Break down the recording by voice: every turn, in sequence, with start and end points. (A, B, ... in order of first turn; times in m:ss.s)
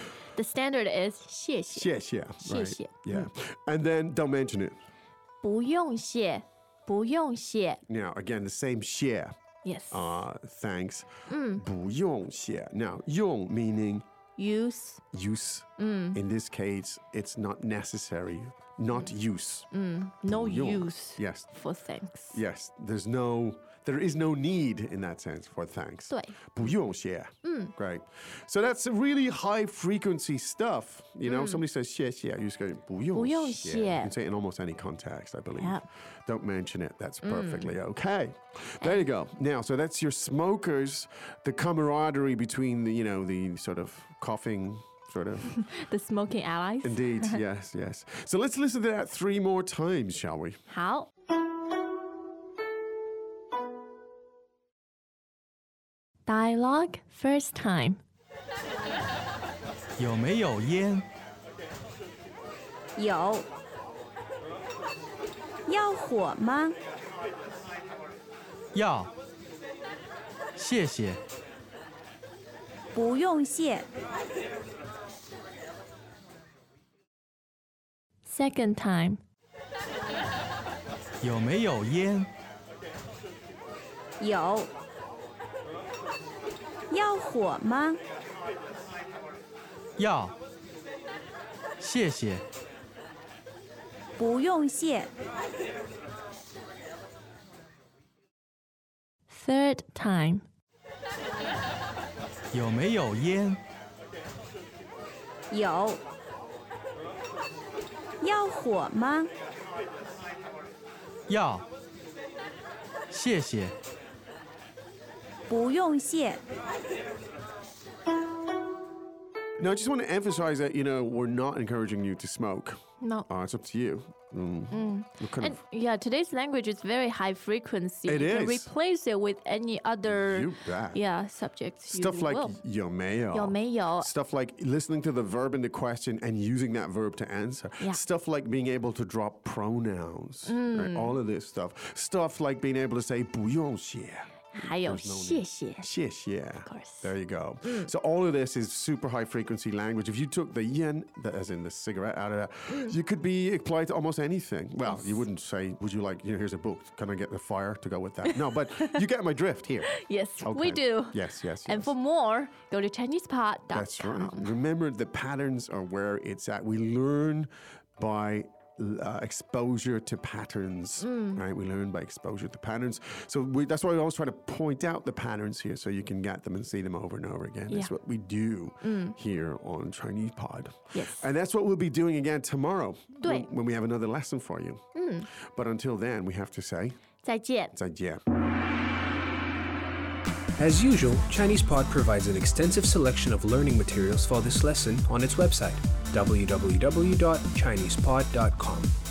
0:00.3-0:01.9 A
0:01.7-0:04.8 B
0:02.4-0:03.3 A
0:05.4-0:07.8 A
0:07.9-0:09.3 B
0:09.6-0:10.2 A
0:09.9-0:14.0 B
0:11.3-0:11.6 A
0:14.4-0:15.0 A
0:15.1-0:19.7 B
0:15.8-0:16.2 A
0:19.7-0:22.4 A
0:20.2-0:21.5 B
0:22.3-0:45.5 B
0:26.1-0:26.7 A
0:27.4-0:27.7 A
0:31.2-0:31.6 A
0:33.1-0:34.1 A
0:35.6-0:35.8 A
0:37.2-0:37.8 A
0:45.7-0:47.4 A
0:46.8-0:50.6 B
0:50.7-0:51.1 A
0:56.2-0:58.0 A
1:00.0-1:01.0 C
1:03.0-1:03.5 D
1:05.6-1:06.8 D
1:08.7-1:09.1 C
1:10.6-1:11.2 C
1:12.9-1:13.9 D
1:18.2-1:19.2 A
1:21.2-1:22.3 C
1:24.2-1:24.7 D
1:26.9-1:28.0 D
1:30.0-1:30.3 C
1:31.8-1:32.4 C
1:34.2-1:35.1 D
1:39.3-1:40.4 A
1:42.5-1:43.6 C
1:45.5-1:46.0 D
1:48.2-1:49.3 D
1:51.3-1:51.6 C
1:53.1-1:53.7 C
1:55.5-1:56.4 D
1:59.6-2:05.6 B
2:03.0-2:03.3 A
2:04.7-2:12.6 A
2:08.1-2:08.7 B
2:10.0-2:11.0 B
2:11.9-2:41.9 B
2:13.3-2:14.1 A
2:20.5-2:21.2 A
2:24.5-2:25.9 A
2:26.6-2:27.1 A
2:27.6-2:27.9 A
2:32.7-2:32.9 A
2:34.8-2:35.2 A
2:39.9-2:44.5 A
2:43.7-3:04.8 B
2:51.0-2:51.4 A
2:58.8-2:59.2 A
3:00.9-3:01.3 A
3:03.2-3:03.5 A
3:04.9-3:05.3 A
3:05.4-3:07.0 B
3:07.2-3:07.7 A
3:07.7-3:08.2 B
3:10.6-3:18.9 E